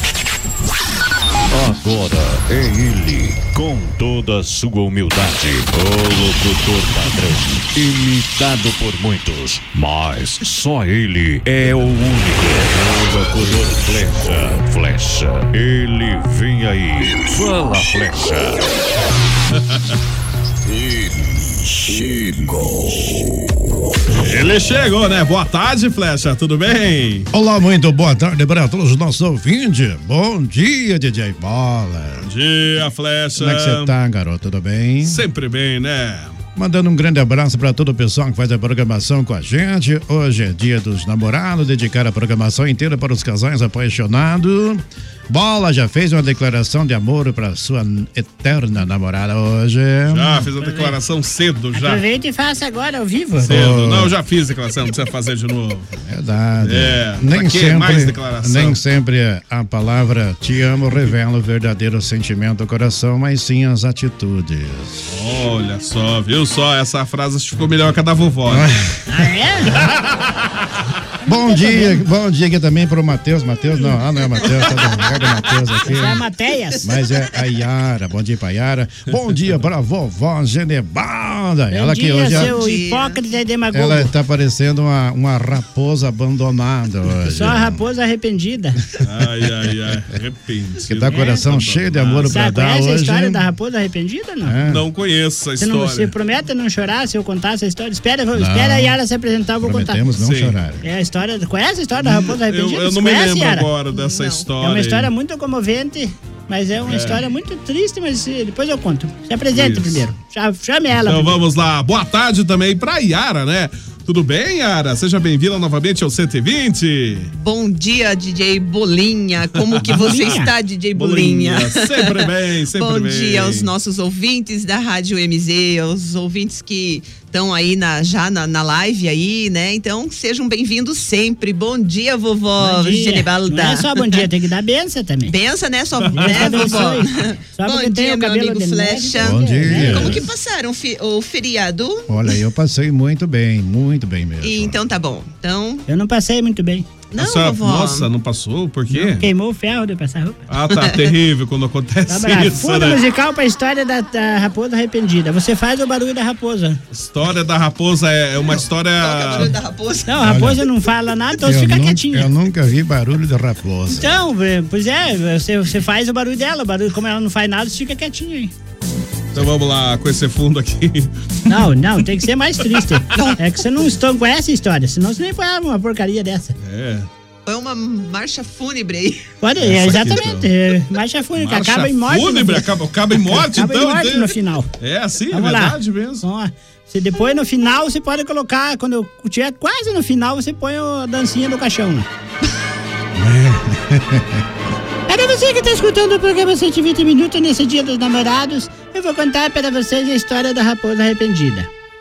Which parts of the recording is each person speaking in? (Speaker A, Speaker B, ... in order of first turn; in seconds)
Speaker A: 1.5-18.7
Speaker B: 24.1-27.3, 32.2-33.9, 35.0-36.4, 50.1-52.0, 53.4-55.9, 56.6-58.8, 65.1-68.7, 89.0-92.4, 94.7-96.1, 100.2-100.6, 102.0-105.1, 106.9-107.2, 109.5-110.0, 111.0-117.3, 119.7-120.3, 120.9-123.7, 136.1-136.9, 147.2-149.2, 150.5-153.0, 156.9-159.6, 169.3-171.1, 172.7-173.3, 176.6-177.1, 179.6-180.5, 181.3-186.2
Speaker C: 27.3-32.2, 33.4-35.2, 36.5-50.4, 53.5-54.1, 56.0-65.0, 68.5-68.8, 71.2-76.2, 76.8-82.5, 83.7-87.8, 90.9-93.4, 94.4-94.8, 98.3-99.0, 99.6-100.8, 139.2-140.2, 142.1-144.8, 160.2-160.6, 161.4-164.1, 193.1-194.4
Speaker D: 50.6-50.9, 51.7-53.6, 69.1-69.8, 71.3-72.0, 75.8-76.8, 81.7-84.1, 87.2-88.8, 92.3-94.5, 95.6-100.0, 100.8-103.7, 104.6-111.4, 119.9-120.5, 132.6-135.3, 136.2-140.2, 145.9-146.9, 148.9-150.4, 152.1-156.8, 160.1-162.3, 163.9-168.5, 171.5-176.5, 179.4-182.7, 183.2-184.7, 185.3-192.1, 195.1-201.7
Speaker E: 82.3-83.2, 103.9-104.5, 117.4-134.2, 135.3-142.1, 144.4-145.8, 147.1-148.1, 150.7-151.1, 159.0-160.2, 177.4-179.3